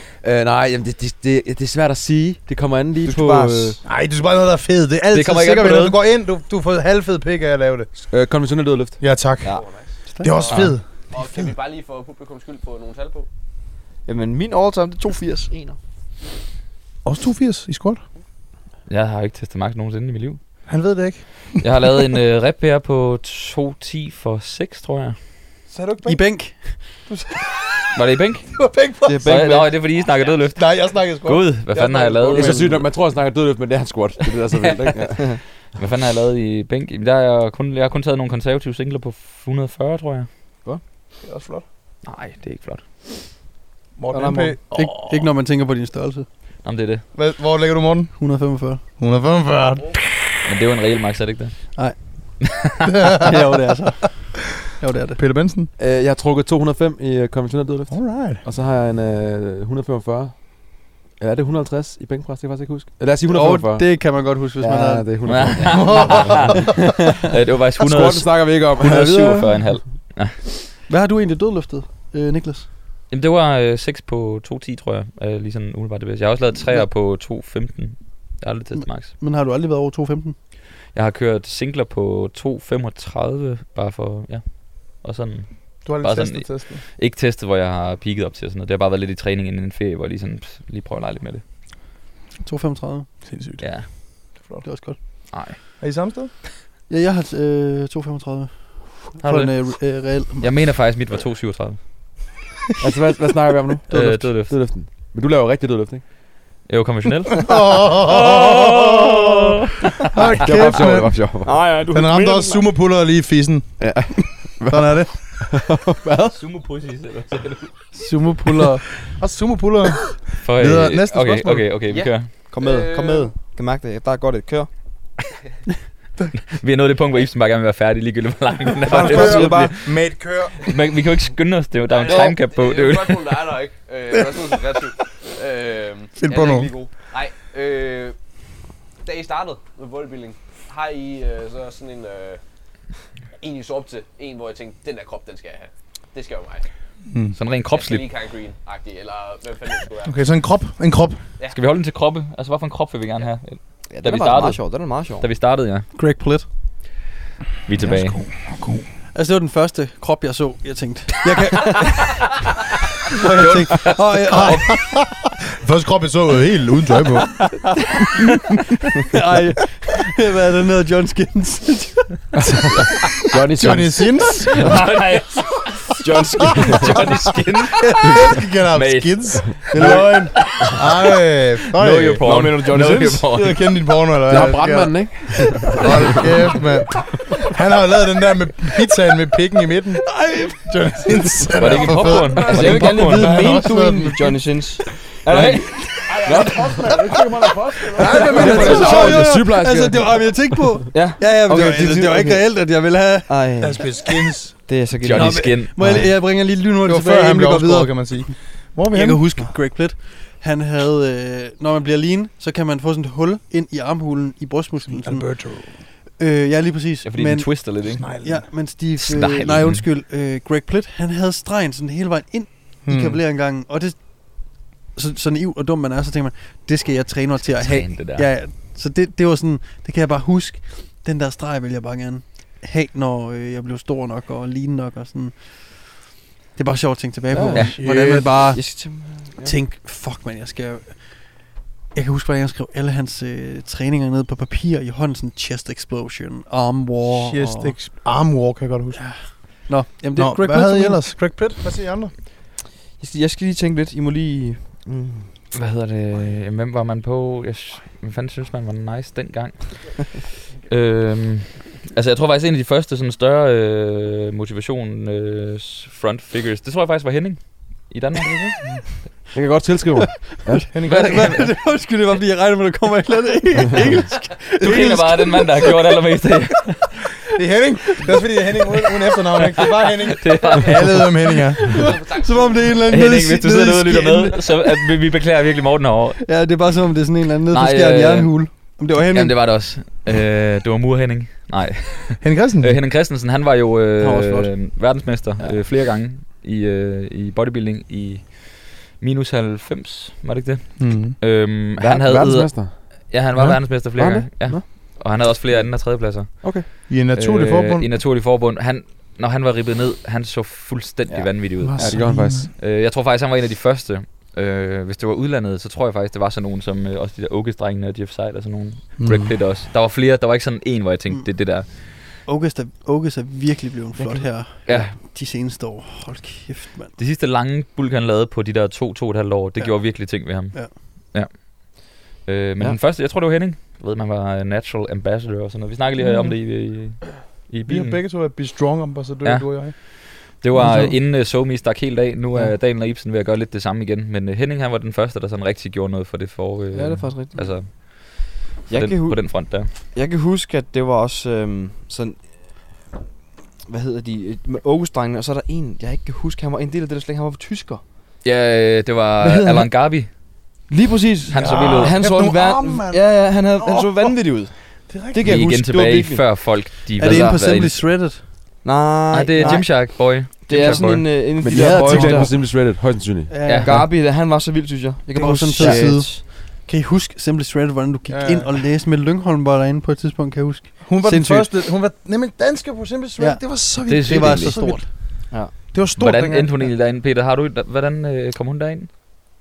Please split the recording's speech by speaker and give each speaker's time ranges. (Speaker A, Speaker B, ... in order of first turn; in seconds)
Speaker A: 0.2-3.8, 8.1-9.0, 32.3-35.4, 55.8-64.0, 64.6-66.5, 67.8-69.6, 102.8-106.0, 110.4-111.5, 113.8-116.4, 173.3-174.1, 184.3-185.8, 196.2-197.0, 198.3-200.3, 237.3-237.6, 269.3-270.6, 301.8-302.7, 303.8-305.0, 306.4-306.6, 311.1-312.5, 371.4-373.5, 375.6-375.8
Speaker B: 3.0-3.8, 14.1-15.8, 29.0-29.8, 44.1-44.6, 111.4-112.7, 122.5-124.7, 128.9-129.8, 136.2-136.9, 153.9-155.3, 176.0-177.1, 182.2-183.2, 192.3-195.8, 200.9-202.4, 203.3-204.0, 204.6-205.8, 238.5-239.5, 253.0-255.3, 346.7-347.7, 348.7-352.5, 353.6-357.8, 360.7-366.3, 367.0-367.6, 368.6-372.3, 373.6-376.2, 385.3-385.6
Speaker C: 3.8-7.9, 9.0-9.6, 10.2-11.5, 17.0-18.0, 20.7-21.6, 25.7-26.3, 27.1-27.9, 28.5-29.5, 30.5-32.8, 41.2-41.6, 44.0-45.2, 47.1-48.2, 49.0-50.3, 52.9-53.4, 55.2-55.7, 57.9-58.4, 65.7-66.6, 85.8-86.8, 93.2-94.6, 95.8-96.3, 107.4-109.5, 110.1-115.4, 119.2-121.8, 128.9-130.6, 136.2-136.7, 147.1-147.4, 150.0-151.2, 157.8-158.9, 164.3-167.7, 173.5-174.7, 176.7-177.2, 177.8-185.2, 185.7-194.9, 198.0-199.2, 203.6-204.6, 206.8-209.2, 214.8-215.8, 217.8-218.5, 222.8-223.2, 237.6-238.3, 247.1-249.0, 250.2-252.1, 268.2-268.8, 270.7-271.5, 274.6-275.0, 277.3-281.8, 292.2-292.8, 300.8-301.2, 303.3-303.6, 306.9-307.9, 311.6-312.5, 319.0-319.3, 337.7-339.7, 361.4-365.4, 371.6-372.3, 378.1-378.6, 380.8-386.7
Speaker D: 5.1-6.0, 18.9-20.4, 21.6-25.2, 27.9-32.8, 34.5-35.2, 35.7-40.3, 42.0-43.1, 46.6-47.0, 50.4-51.6, 52.4-52.9, 65.2-70.7, 73.1-79.1, 80.9-91.4, 93.6-93.9, 95.3-95.6, 99.2-99.8, 100.4-101.8, 103.9-104.5, 106.7-110.2, 116.3-117.7, 120.4-122.4, 126.4-129.9, 130.6-133.4, 147.3-148.1, 151.5-155.9, 157.7-158.2, 163.2-164.8, 174.6-181.1, 181.8-183.6, 191.6-193.3, 195.3-196.1, 205.0-206.1, 217.0-218.0, 218.9-219.8, 227.4-228.3, 255.5-268.7, 270.9-271.4, 274.6-276.8, 280.2-281.1, 282.9-286.2, 287.5-321.8, 324.6-324.9, 326.9-338.0, 339.2-349.7, 358.2-360.1, 361.3-362.0, 365.2-367.8, 369.1-371.2, 373.4-373.8, 383.9-384.8, 385.7-388.9
Speaker E: 9.4-13.3, 30.0-30.4, 121.8-123.4, 131.9-136.2, 137.0-138.1, 139.0-142.4, 143.4-146.7, 147.7-150.2, 281.8-282.8
Speaker F: 26.0-26.9, 44.7-46.2, 48.1-48.8, 53.2-55.2, 63.2-65.1, 70.9-72.7, 78.7-80.3, 92.4-93.2, 94.6-95.0, 96.9-100.6, 103.9-104.3, 117.9-118.8, 155.9-156.4, 159.1-162.3, 163.1-164.7, 169.1-172.3, 190.2-190.5, 198.2-203.8, 205.2-208.3, 208.9-235.9, 236.6-241.2, 241.9-247.8, 248.9-251.0, 270.5-275.8, 281.6-284.8, 286.2-289.4, 294.0-294.5, 321.1-327.0, 336.0-336.3, 340.5-340.9, 367.0-368.2, 373.3-373.9, 375.1-381.5, 383.2-384.9
Speaker G: 196.1-199.1